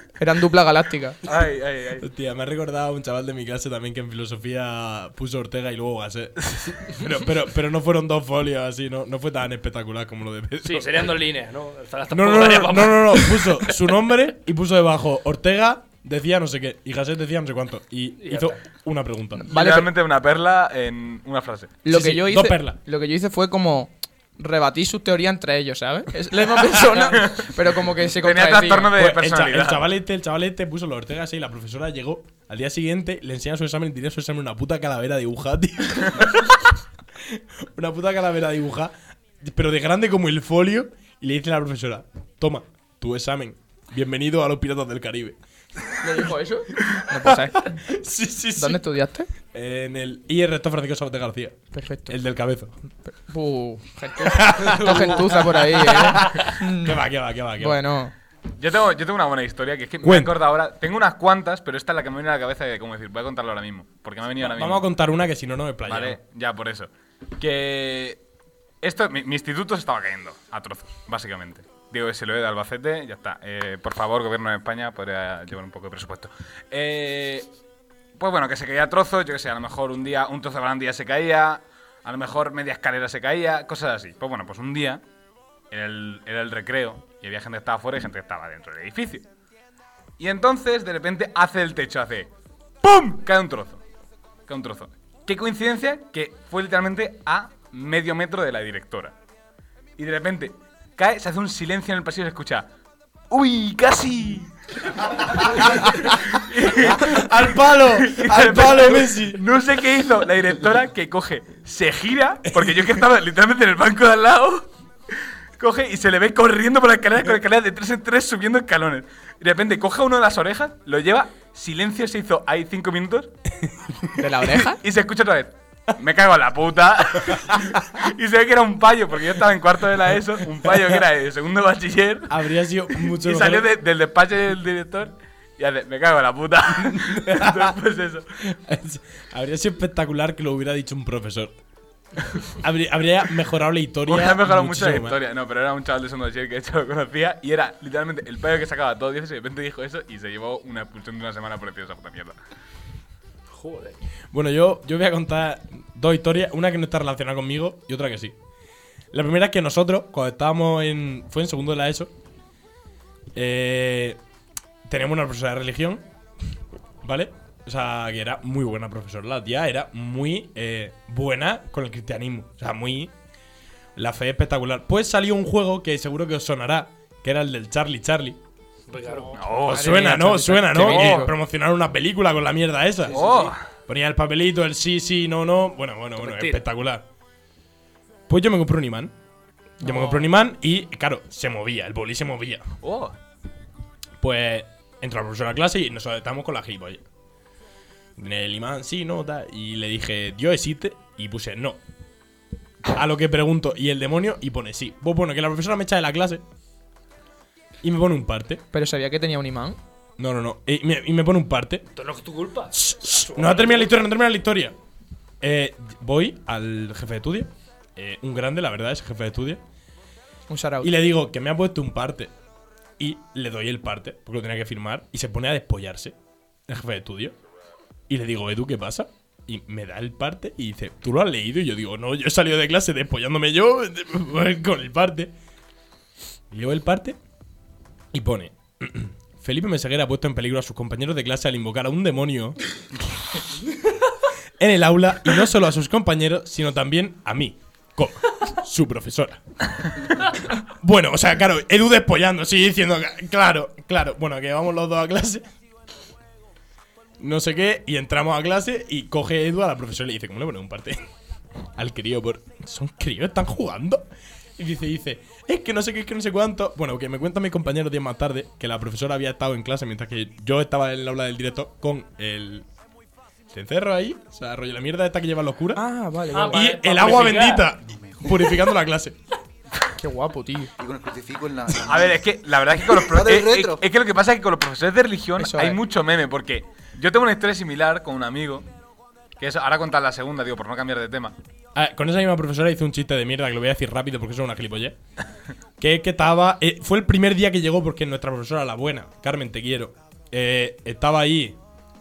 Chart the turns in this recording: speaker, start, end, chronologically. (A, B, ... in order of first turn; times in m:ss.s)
0:00.2-0:01.2 A
0:01.2-0:02.1 B
0:02.0-0:11.1 C
0:10.6-0:13.8 D
0:12.1-0:19.5 C
0:18.2-0:18.6 D
0:19.3-0:19.9 A
0:19.5-0:21.8 B
0:21.8-0:28.9 A
0:21.9-0:22.8 C
0:27.0-0:27.5 B
0:28.1-0:29.9 B
0:28.9-0:46.3 C
0:46.0-0:47.8 A
0:46.8-0:48.8 C
0:48.6-0:49.3 A
0:49.5-0:52.7 C
0:51.7-0:52.2 A
0:53.0-0:57.0 A
0:54.2-0:57.8 C
0:57.6-0:58.1 A
0:58.6-1:04.8 B
1:00.0-1:00.3 C
1:04.4-1:06.2 C
1:05.8-1:08.2 B
1:08.8-1:17.5 B
1:18.2-1:25.0 B
1:25.7-1:29.3 B
1:30.2-1:32.3 B
1:32.8-1:33.8 B
1:34.5-1:39.1 B
1:40.0-1:42.7 B
1:43.3-1:54.7 B
1:45.6-1:46.1 C
1:46.8-1:49.4 C
1:55.6-2:03.4 B
2:04.2-2:04.8 A
2:04.4-2:18.3 B
2:12.3-2:13.7 C
2:16.8-2:17.7 C
2:18.4-2:21.5 C
2:22.6-2:25.2 C
2:24.0-2:32.4 B
2:33.5-2:34.0 D
2:34.3-2:38.3 C
2:39.1-2:42.1 C
2:43.3-2:44.2 C
2:44.8-2:46.0 C
2:47.0-2:53.1 C
2:54.0-2:58.4 C
2:58.9-2:59.4 D
2:59.0-3:01.4 A
2:59.4-3:00.0 B
2:59.6-3:03.2 C
3:00.8-3:01.3 B
3:03.1-3:03.6 B
3:03.1-3:03.5 D
3:03.9-3:07.0 C
3:06.2-3:06.6 D
3:08.3-3:09.1 C
3:09.8-3:10.3 A
3:09.8-3:12.7 C
3:12.8-3:13.1 B
3:14.2-3:17.0 C
3:18.2-3:21.8 C
3:22.9-3:26.4 C
3:27.8-3:28.6 C
3:28.7-3:29.8 A
3:30.2-3:31.9 C
3:32.0-3:34.0 D
3:32.7-3:34.7 C
3:35.4-3:39.6 C
3:40.5-3:40.9 A
3:40.8-3:42.3 C
3:43.0-3:46.1 C
3:46.7-3:47.4 C
3:48.1-3:55.3 C
3:56.5-3:57.2 C
3:58.1-4:02.6 C
4:04.6-4:15.4 C
4:17.2-4:21.1 C
4:21.8-4:32.7 C
4:33.5-4:35.8 C
4:35.7-4:36.8 A
4:36.3-4:37.7 D
4:36.5-4:39.2 C
4:37.8-4:38.5 E
4:40.0-4:40.7 A
4:40.8-4:42.2 E
4:41.8-4:48.7 B
4:42.8-4:43.8 E
4:45.4-4:45.8 A
4:49.4-4:51.4 B
4:51.7-4:55.0 C
4:55.8-5:01.6 C